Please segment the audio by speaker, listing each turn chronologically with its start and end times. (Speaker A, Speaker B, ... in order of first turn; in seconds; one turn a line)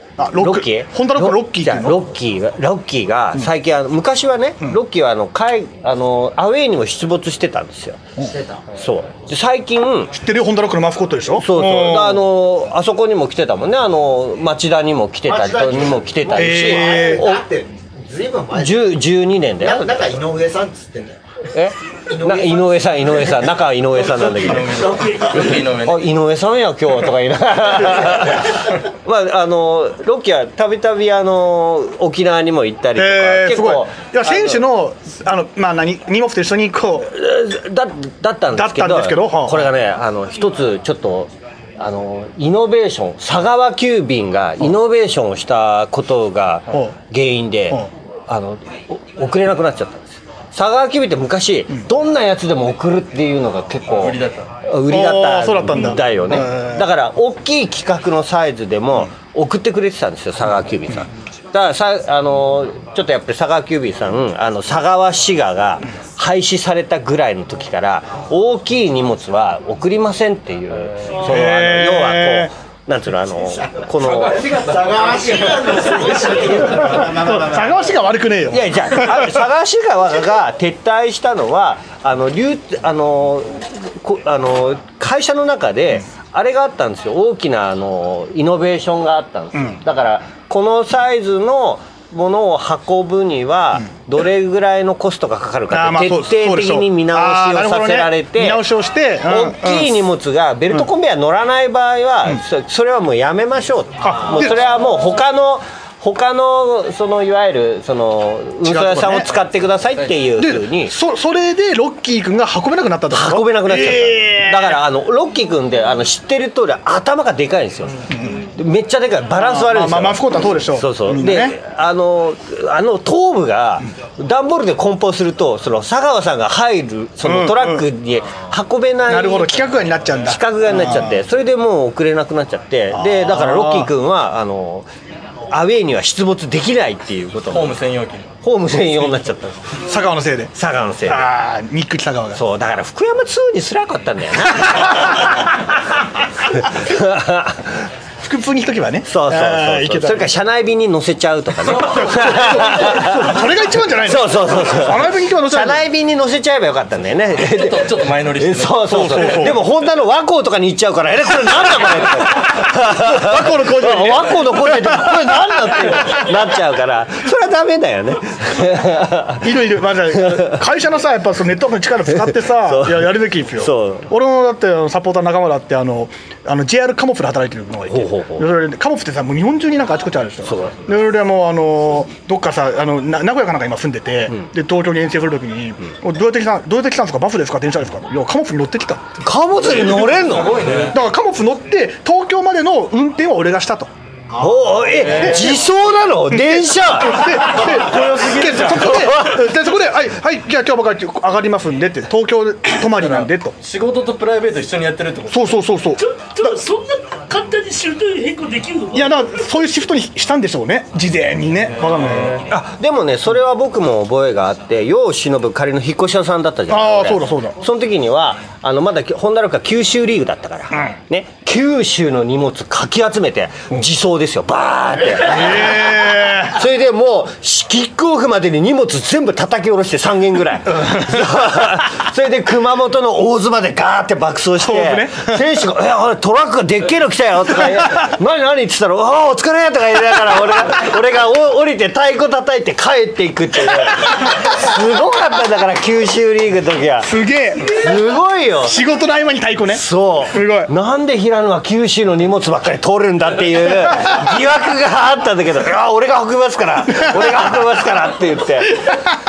Speaker A: 0.2-2.1
Speaker B: 0.4-8.0
Speaker C: 8.2-8.6
Speaker B: 8.7-10.1
Speaker A: 10.1-12.3
Speaker B: 11.4-17.4
Speaker C: 15.2-19.0
Speaker A: 16.3-17.2
Speaker B: 18.5-20.1
Speaker C: 19.6-21.2
Speaker B: 21.5-34.6
Speaker C: 22.1-23.2
Speaker D: 24.0-26.1
Speaker C: 24.7-25.3
Speaker A: 32.9-37.1
Speaker B: 37.0-74.7
Speaker A: 38.5-39.7
Speaker D: 54.0-54.5
Speaker A: 54.9-56.9
Speaker A: 71.2-72.5
Speaker C: 74.4-77.8
Speaker A: 76.8-79.5
Speaker B: 78.5-98.6
Speaker A: 95.7-100.0
Speaker B: 99.2-110.9
Speaker A: 104.0-104.6
Speaker A: 108.6-109.3
Speaker A: 110.4-114.8
Speaker B: 113.1-134.9
Speaker A: 118.1-118.4
Speaker A: 119.3-121.6
Speaker A: 127.2-127.9
Speaker A: 129.1-131.2
Speaker A: 132.9-133.9
Speaker B: 135.5-137.8
Speaker D: 137.5-138.3
Speaker B: 138.4-139.8
Speaker A: 139.8-140.5
Speaker B: 140.5-141.2
Speaker A: 141.0-142.4
Speaker B: 142.3-145.4
Speaker B: 146.5-147.9
Speaker A: 148.2-150.3
Speaker B: 149.1-169.5
Speaker A: 151.8-155.9
Speaker D: 157.3-159.5
Speaker A: 158.9-159.6
Speaker A: 162.3-166.1
Speaker A: 169.4-189.2
Speaker B: 170.1-170.6
Speaker B: 172.2-174.1
Speaker B: 177.9-178.5
Speaker B: 180.4-180.8
Speaker B: 189.2-190.9
Speaker D: 189.6-191.0
Speaker A: 190.8-193.9
Speaker B: 194.3-197.4
Speaker D: 194.9-195.6
Speaker A: 195.0-195.7
Speaker A: 196.3-203.5
Speaker D: 197.6-199.1
Speaker B: 198.8-199.4
Speaker D: 202.9-205.6
Speaker A: 205.3-206.6
Speaker E: 206.0-209.3
Speaker A: 208.9-212.5
Speaker D: 211.8-212.5
Speaker B: 212.5-247.1
Speaker A: 216.7-217.6
Speaker A: 225.2-226.6
Speaker A: 230.8-231.2
Speaker A: 234.6-235.4
Speaker A: 247.0-247.9
Speaker B: 247.7-248.8
Speaker A: 248.6-250.7
Speaker B: 249.7-259.0